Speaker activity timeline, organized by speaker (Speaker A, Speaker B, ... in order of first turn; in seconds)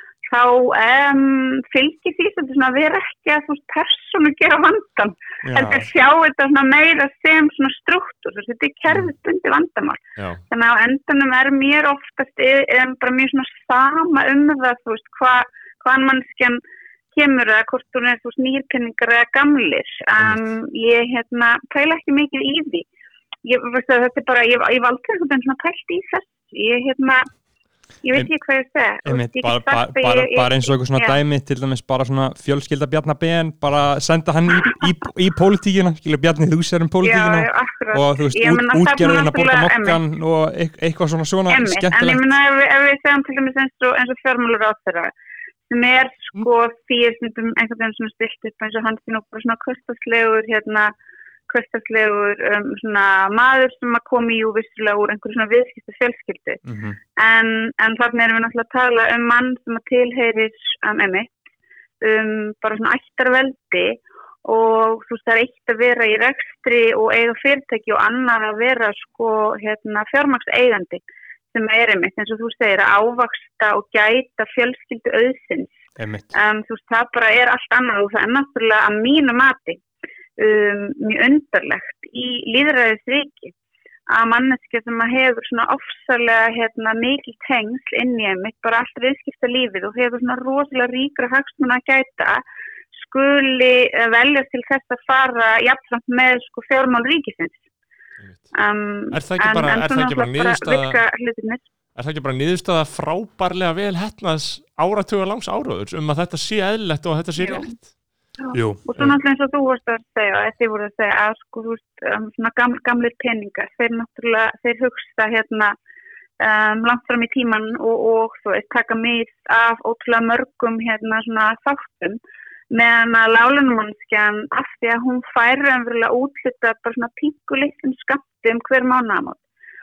Speaker A: 0.3-16.6, 17.1-22.8, 23.4-27.3, 28.0-31.2, 37.0-40.0, 41.5-45.1, 45.7-50.9, 51.5-56.6, 57.2-61.3, 62.0-71.0, 71.5-75.8, 76.3-79.8, 80.4-83.5, 84.1-92.4, 92.9-97.6, 98.5-101.7, 107.4-107.7, 108.4-115.7, 116.4-122.2, 122.7-129.4
Speaker B: 5.4-5.9, 29.0-42.2, 56.6-57.0, 76.0-76.3, 108.5-108.9
Speaker C: 99.1-101.0, 102.0-107.8